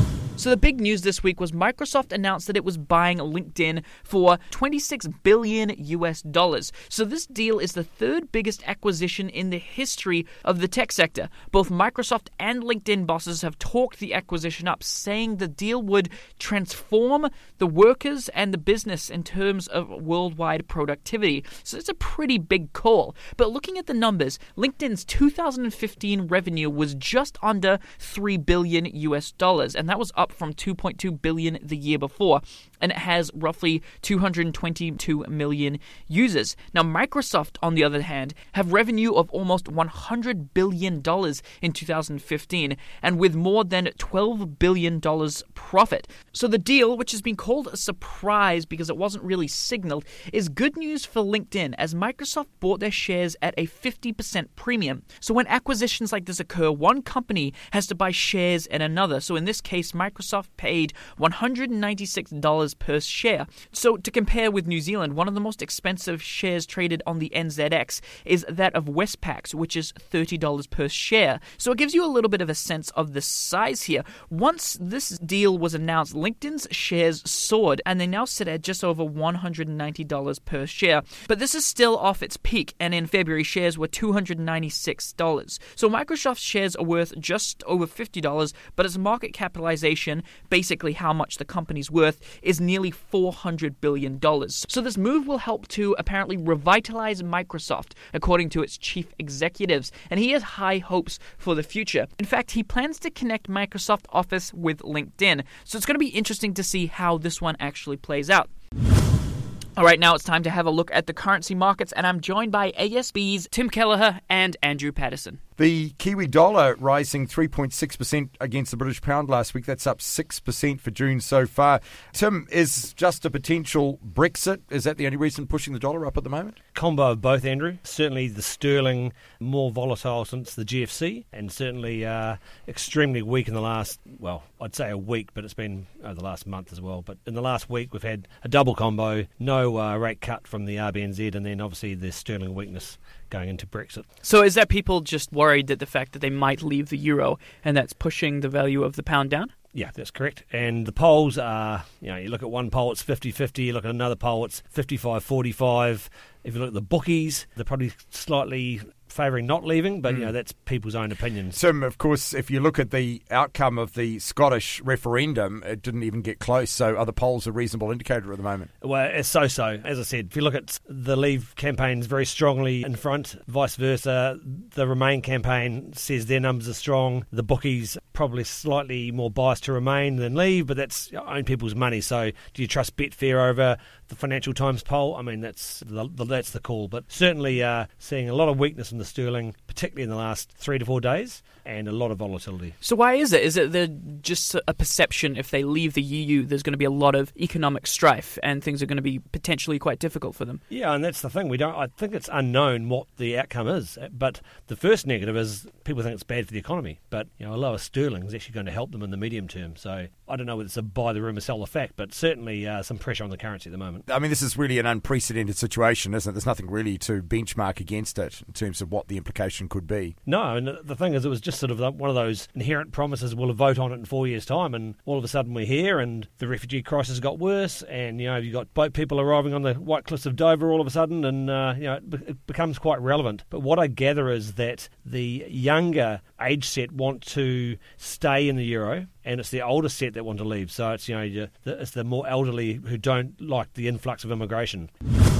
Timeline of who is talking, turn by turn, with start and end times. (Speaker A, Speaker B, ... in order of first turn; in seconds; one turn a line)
Speaker A: 0.4-108.5
Speaker A: 109.8-115.4
Speaker B: 115.6-126.5
Speaker C: 126.7-144.0
Speaker A: 144.2-149.5
Speaker C: 149.7-161.5
Speaker B: 161.5-168.7
Speaker C: 168.8-192.7
Speaker A: 192.8-200.6
Speaker C: 200.7-214.0
Speaker B: 214.1-220.1
Speaker C: 220.3-244.9